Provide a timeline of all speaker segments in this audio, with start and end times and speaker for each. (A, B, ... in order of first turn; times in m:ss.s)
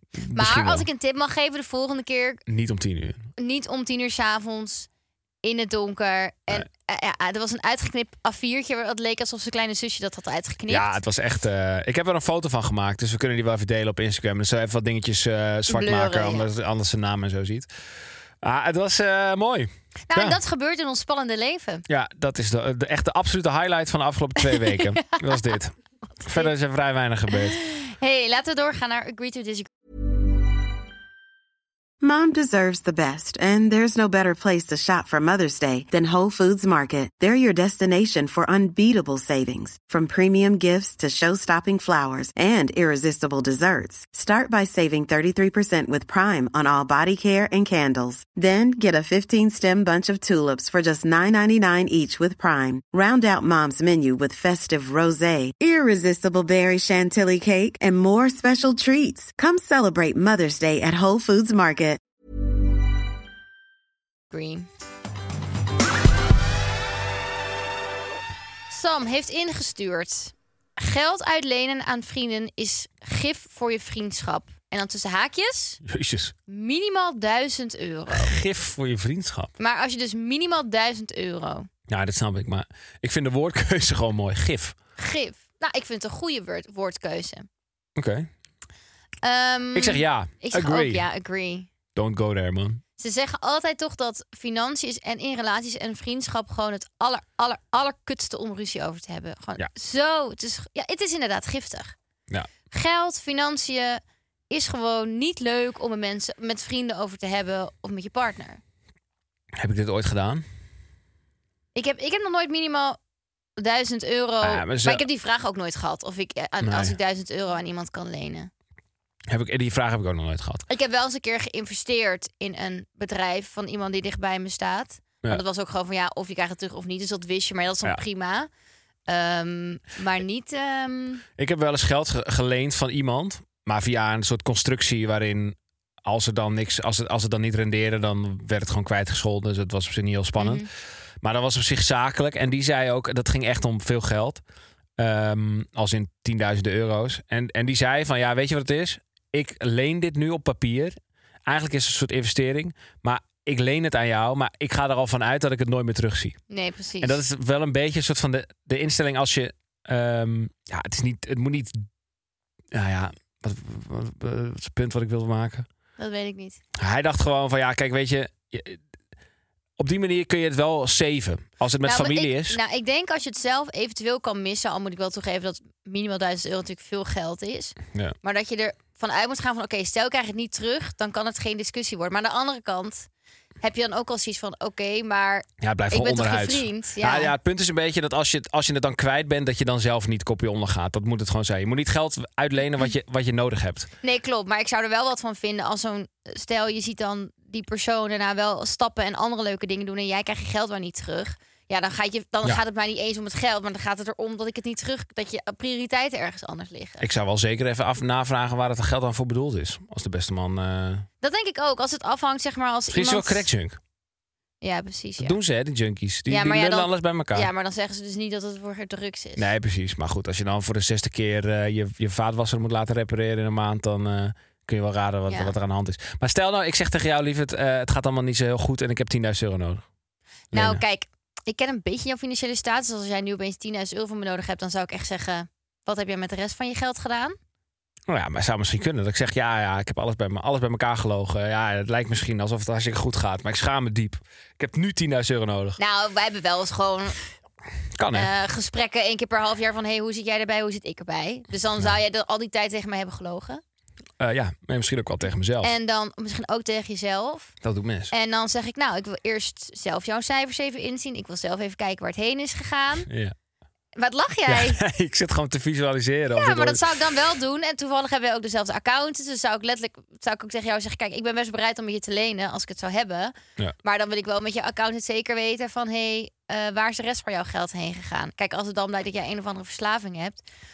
0:00.1-0:00.8 A
0:00.3-0:02.4 B
0:02.5-0:03.2 A
0:03.4-0:04.9 B
0:05.4-0:10.9 B
0:10.7-0:17.7 A
0:15.7-0:16.5 B
0:18.4-0:20.4 A
0:20.1-0:21.8 B
0:21.9-0:25.7 A
0:24.5-0:25.0 B
0:26.2-0:27.6 A
0:27.5-0:29.7 B
0:32.0-1:02.0 C
1:04.3-1:04.7 B
1:08.7-1:15.8 B
1:15.8-1:16.3 A
1:16.5-1:18.4 B
1:18.1-1:19.5 A
1:19.6-1:21.7 B
1:21.9-1:24.7 A
1:25.0-1:27.5 B
1:28.0-1:28.3 A
1:29.2-1:31.7 B
1:29.7-1:31.0 A
1:31.9-1:32.8 A
1:33.0-1:41.9 B
1:42.7-1:48.6 B
1:49.6-1:50.4 A
1:51.7-1:53.0 B
1:53.6-1:58.5 B
1:54.4-1:55.0 A
1:56.6-1:56.9 A
1:59.3-2:00.6 A
2:00.7-2:08.5 B
2:09.1-2:11.2 B
2:11.4-2:20.7 A
2:20.4-2:20.7 B
2:21.2-2:24.4 A
2:25.0-2:36.4 A
2:36.5-2:37.2 B
2:37.0-2:41.8 A
2:42.7-2:45.7 A
2:46.0-2:46.6 B
2:46.8-2:48.8 A
2:49.8-2:52.6 A
2:51.8-3:03.1 B
3:03.6-3:07.3 B
3:05.6-3:13.9 A
3:14.0-3:27.1 B
3:27.0-3:31.0 A
3:31.2-3:33.5 B
3:32.9-3:33.8 A
3:34.6-3:35.4 B
3:35.2-3:37.5 A
3:36.3-3:39.5 B
3:39.4-3:49.8 A
3:50.5-3:50.8 A
3:50.5-3:57.4 B
3:58.1-4:05.8 A
4:05.8-4:07.2 B
4:07.9-4:08.3 A
4:08.1-4:13.6 B
4:14.2-4:15.7 A
4:15.6-4:17.5 B
4:17.6-4:18.1 A
4:18.1-4:23.1 B
4:23.1-4:23.3 A
4:24.0-4:24.8 B
4:24.5-4:26.8 A
4:26.4-4:40.4 B